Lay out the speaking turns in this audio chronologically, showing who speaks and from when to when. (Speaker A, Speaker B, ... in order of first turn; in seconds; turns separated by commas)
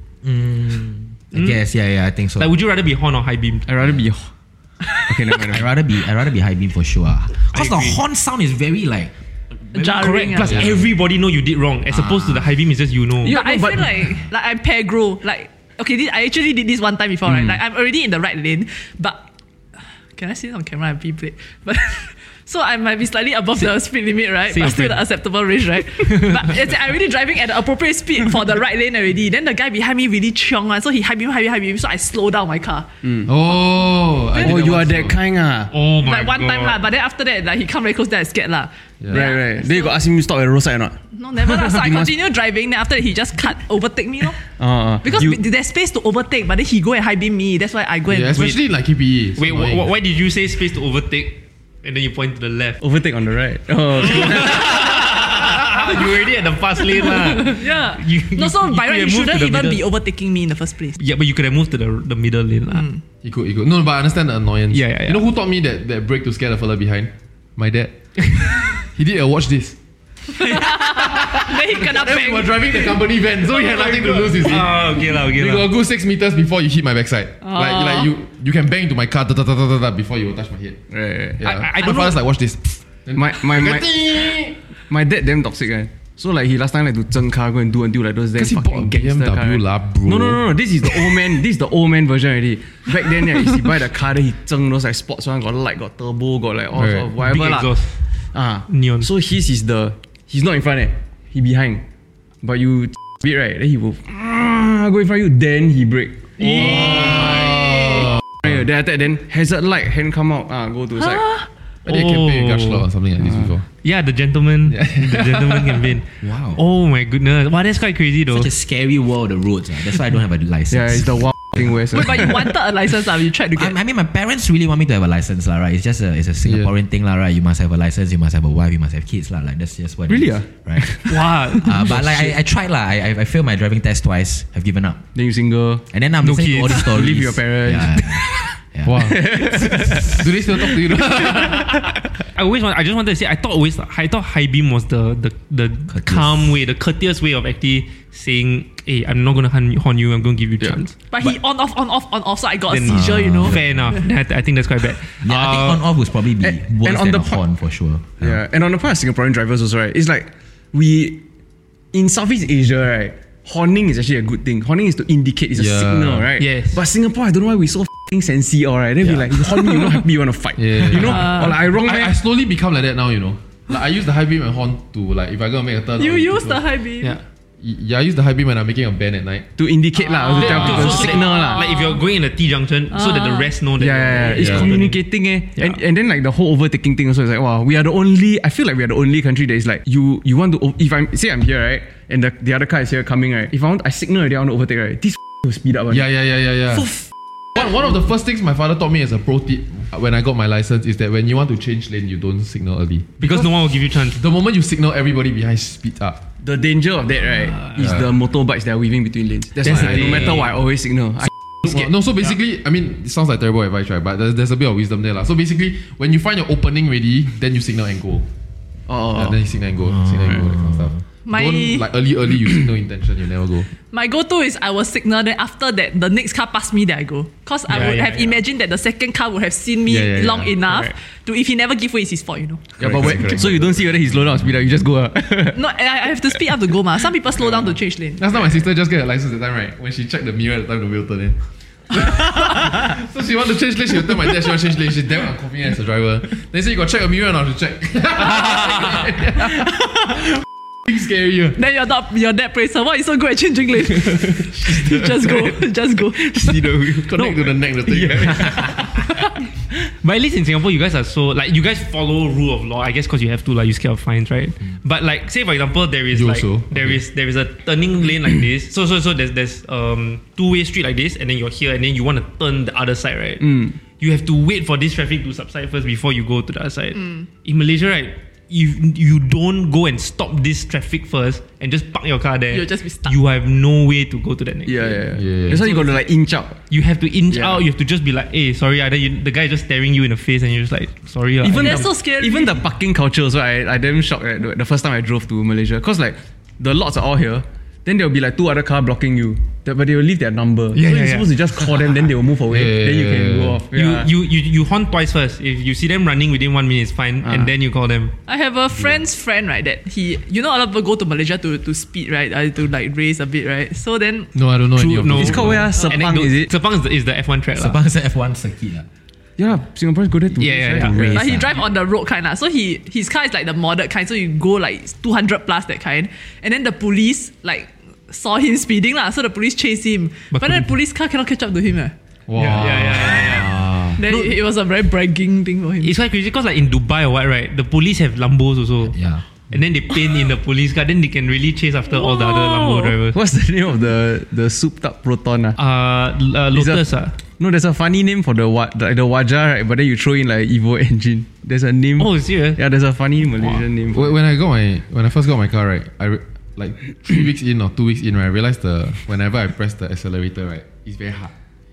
Speaker A: 0.2-2.5, Speaker B: 2.4-3.6, Speaker C: 3.7-4.3, Speaker C: 5.0-5.7, Speaker A: 5.4-9.1, Speaker B: 7.5-8.0, Speaker A: 9.7-10.7, Speaker D: 9.7-10.6, Speaker B: 9.8-13.3, Speaker E: 10.4-10.8, Speaker A: 11.9-12.5, Speaker C: 13.2-13.9, Speaker D: 13.2-19.2, Speaker D: 19.8-32.9, Speaker B: 24.5-25.0, Speaker B: 26.1-26.5, Speaker E: 33.2-35.2, Speaker D: 33.7-34.6, Speaker C: 34.4-35.7, Speaker B: 35.7-36.8, Speaker D: 36.0-40.0, Speaker E: 39.0-39.3, Speaker C: 39.2-42.1, Speaker D: 41.1-44.4, Speaker C: 44.5-45.4, Speaker D: 45.0-48.5, Speaker E: 48.1-49.9, Speaker B: 49.4-52.8, Speaker C: 52.8-55.0, Speaker B: 54.0-59.8, Speaker D: 57.2-61.0, Speaker B: 61.0-62.9, Speaker D: 62.8-63.0, Speaker E: 63.2-67.9, Speaker B: 64.7-65.2, Speaker E: 68.5-69.8, Speaker D: 70.3-73.6, Speaker E: 71.2-80.8, Speaker B: 73.7-75.7, Speaker D: 77.4-78.1, Speaker C: 80.9-81.4, Speaker E: 81.4-84.6, Speaker B: 81.4-82.2, Speaker C: 83.1-84.0, Speaker C: 84.9-97.7, Speaker E: 88.3-90.8, Speaker E: 96.7-97.1, Speaker B: 97.2-97.9, Speaker C: 98.3-101.8, Speaker B: 98.7-99.1, Speaker C: 102.4-111.4, Speaker B: 106.4-107.3, Speaker E: 107.5-108.0, Speaker B: 111.8-112.9, Speaker E: 111.8-113.7, Speaker C: 113.2-113.5, Speaker B: 113.8-118.5, Speaker E: 114.7-115.8, Speaker A: 116.2-116.6, Speaker A: 118.3-121.2, Speaker C: 120.7-122.3, Speaker D: 121.9-123.7, Speaker A: 122.0-122.2, Speaker A: 123.5-130.9, Speaker E: 126.4-126.7, Speaker C: 130.1-132.2, Speaker B: 131.1-132.3, Speaker A: 131.6-135.0, Speaker C: 135.1-135.8, Speaker A: 135.9-139.0, Speaker B: 136.2-136.8, Speaker C: 136.7-138.4, Speaker E: 138.8-141.8, Speaker C: 139.0-140.8, Speaker B: 142.3-150.9, Speaker A: 145.9-146.5, Speaker D: 151.1-153.6, Speaker B: 152.7-155.8, Speaker A: 152.9-153.9, Speaker A: 155.2-158.4, Speaker C: 156.4-157.4, Speaker C: 158.2-161.2, Speaker C: 161.9-172.2, Speaker E: 165.5-166.3, Speaker B: 166.4-166.8, Speaker E: 170.6-176.6, Speaker D: 176.0-177.2, Speaker E: 177.6-179.5, Speaker C: 179.6-181.7, Speaker D: 180.0-180.4, Speaker B: 180.3-185.0, Speaker E: 180.4-181.0, Speaker D: 181.5-182.0, Speaker D: 183.0-183.5, Speaker C: 183.8-196.1, Speaker E: 184.3-184.7, Speaker E: 195.9-196.9, Speaker C: 196.8-197.0, Speaker E: 197.6-203.2, Speaker B: 203.2-204.2, Speaker E: 204.1-206.2, Speaker C: 206.4-211.9, Speaker E: 207.8-208.1, Speaker B: 209.7-210.4, Speaker E: 211.6-218.3, Speaker C: 218.9-219.4, Speaker E: 219.1-223.7, Speaker D: 221.2-221.9, Speaker D: 223.8-232.8, Speaker B: 227.7-228.4, Speaker E: 229.9-230.7, Speaker C: 230.7-230.9, Speaker C: 232.8-235.6, Speaker E: 232.8-234.0, Speaker D: 235.5-238.3, Speaker E: 238.2-249.9, Speaker E: 250.8-251.6, Speaker D: 251.6-257.4, Speaker C: 256.2-257.1, Speaker E: 256.9-258.9, Speaker C: 257.9-258.7, Speaker B: 259.8-285.0, Speaker E: 266.1-267.0, Speaker D: 282.5-283.1, Speaker C: 284.6-286.6, Speaker E: 285.1-285.6, Speaker B: 286.7-291.9, Speaker C: 287.3-287.6, Speaker C: 291.4-304.1, Speaker D: 291.5-292.6, Speaker B: 300.7-301.3, Speaker E: 302.5-303.6, Speaker B: 303.7-308.1, Speaker C: 307.2-307.5, Speaker D: 308.2-314.3, Speaker E: 314.3-315.7, Speaker B: 314.8-317.8, Speaker C: 315.1-316.5, Speaker A: 317.5-318.9, Speaker C: 319.4-321.2, Speaker B: 320.4-321.1, Speaker A: 320.8-321.6, Speaker D: 321.1-331.9, Speaker B: 330.3-330.7, Speaker E: 332.3-333.9, Speaker B: 332.4-333.5, Speaker D: 334.0-335.9, Speaker B: 335.8-343.1, Speaker A: 338.9-339.2, Speaker D: 341.9-342.9, Speaker C: 343.1-345.6, Speaker B: 345.6-347.2, Speaker C: 346.5-346.9, Speaker C: 347.4-354.1, Speaker B: 352.0-352.6, Speaker E: 353.9-361.3